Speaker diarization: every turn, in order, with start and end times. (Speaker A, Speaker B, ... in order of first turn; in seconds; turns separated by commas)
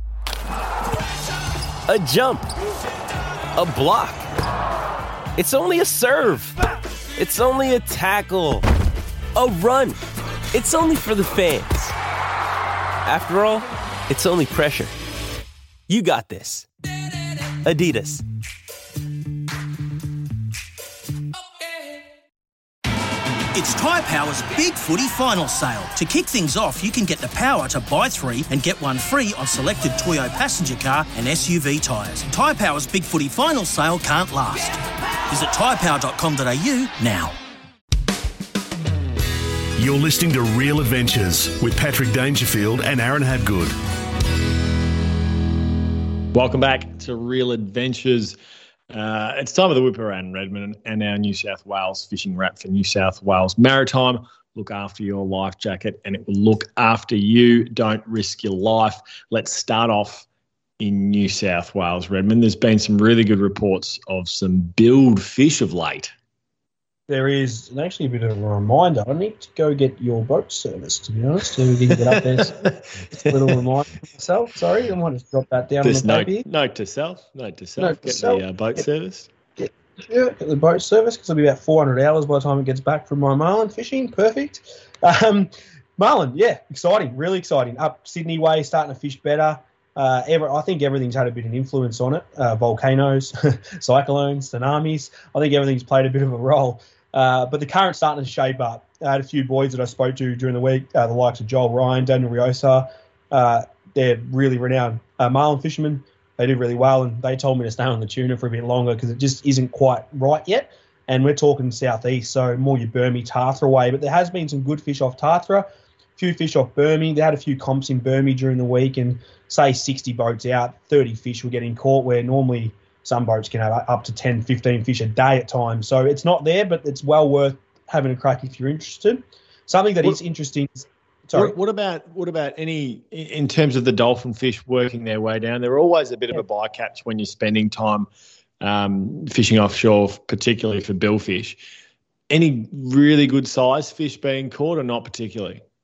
Speaker A: 1.9-2.5, Speaker A: 3.5-4.2, Speaker A: 5.3-6.5, Speaker A: 7.2-8.6, Speaker A: 9.3-10.0, Speaker A: 10.5-11.9, Speaker A: 13.0-14.9, Speaker A: 15.9-16.7, Speaker A: 17.6-18.2, Speaker B: 23.5-34.8, Speaker B: 35.3-37.3, Speaker C: 39.8-43.7, Speaker D: 46.3-48.4, Speaker D: 48.9-60.2, Speaker D: 60.8-66.1, Speaker E: 67.1-76.5, Speaker D: 72.0-72.8, Speaker D: 75.8-79.3, Speaker E: 77.8-78.4, Speaker E: 79.6-115.7, Speaker E: 116.2-131.6, Speaker D: 131.3-138.1, Speaker D: 138.6-141.6, Speaker D: 142.3-145.6